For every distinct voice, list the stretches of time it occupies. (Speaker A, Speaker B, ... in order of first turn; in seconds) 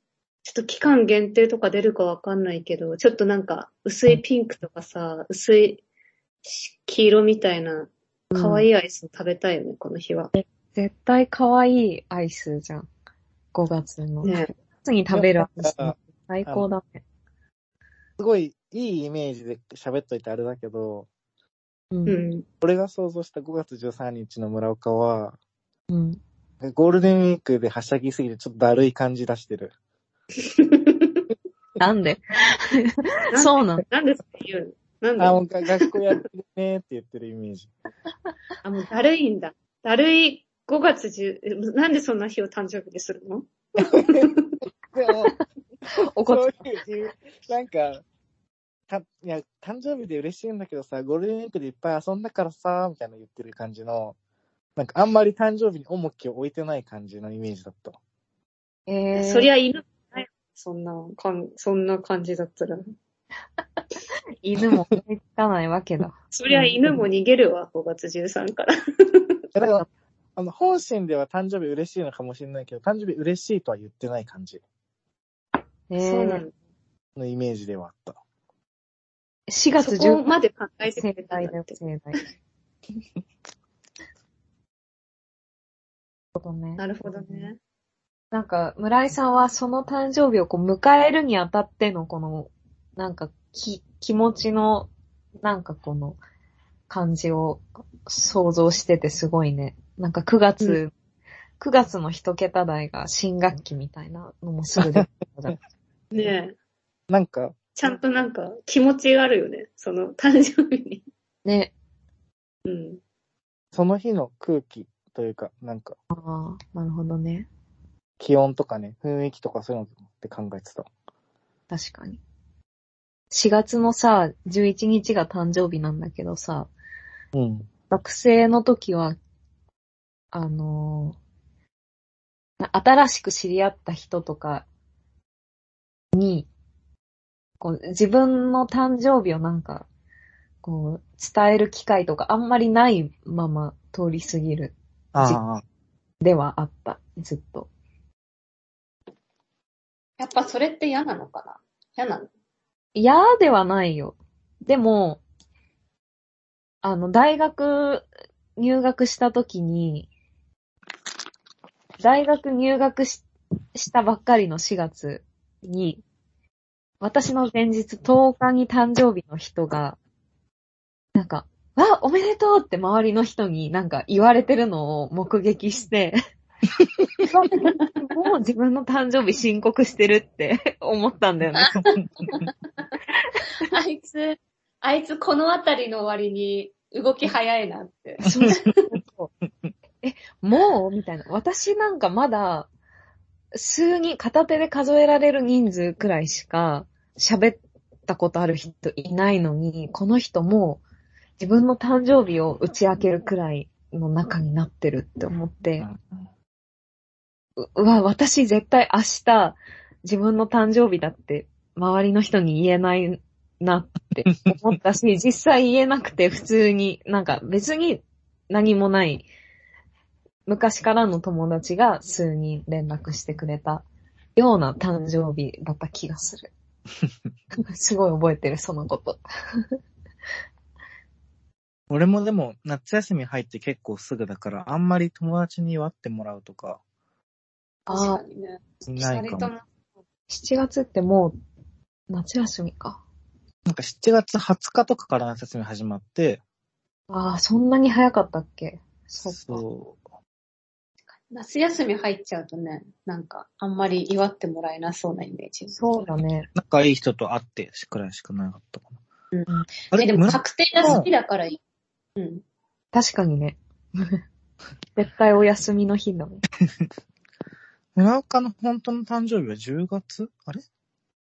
Speaker A: 0.4-5.8, 6.4-10.3, 14.2-14.5, 22.1-22.4, 30.4-31.2, 33.3-35.9, 38.6-44.6, 59.1-62.8, 66.3-69.2, 76.0-76.5, 79.8-81.8, 86.8-87.6, 106.1-106.5, 107.8-111.0, 112.7-113.0, 150.2-152.3, 177.5-177.9, 181.6-182.5, 183.6-188.9, 237.9-239.7, 251.3-256.1, 259.3-261.6, 262.2-262.4
Speaker B: 8.3-8.7, 10.3-12.9, 13.5-17.0, 21.9-22.2, 25.9-26.2, 31.8-33.8, 45.9-46.6, 58.9-59.5, 64.4-66.8, 69.6-69.8, 75.9-76.4, 79.5-80.2, 81.0-82.2, 86.3-87.4, 88.3-94.9, 95.4-96.2, 96.9-100.9, 101.6-105.6, 111.4-111.7, 116.1-117.5, 121.7-122.2, 123.3-126.7, 127.9-129.2, 130.3-131.2, 132.6-134.7, 136.1-136.5, 137.6-139.9, 140.6-145.4, 146.2-147.7, 152.9-155.2, 156.8-158.1, 158.6-160.1, 162.0-166.0, 167.0-170.0, 171.1-176.2, 177.2-181.8, 183.4-183.7, 188.2-189.3, 190.0-192.7, 193.5-200.8, 201.4-205.9, 207.6-219.2, 220.4-223.8, 224.3-226.5, 227.6-229.2, 237.9-238.2, 240.3-241.3, 242.1-243.0, 247.1-249.6, 255.7-256.5, 262.9-264.2, 264.9-266.4
Speaker C: 15.1-16.7, 18.2-21.1, 22.6-25.4, 26.6-29.7, 35.2-37.7, 43.8-44.3, 44.9-45.3, 46.2-48.0, 48.9-54.1, 54.8-58.0, 69.5-74.6, 77.2-78.2, 107.1-107.6, 113.7-116.0, 118.2-120.9, 127.3-127.7, 145.1-145.6, 176.8-177.1, 181.7-182.3, 205.8-206.2, 231.9-236.8, 238.9-239.5, 243.7-246.4, 249.3-250.0, 256.5-258.9, 259.9-261.1, 267.9-270.6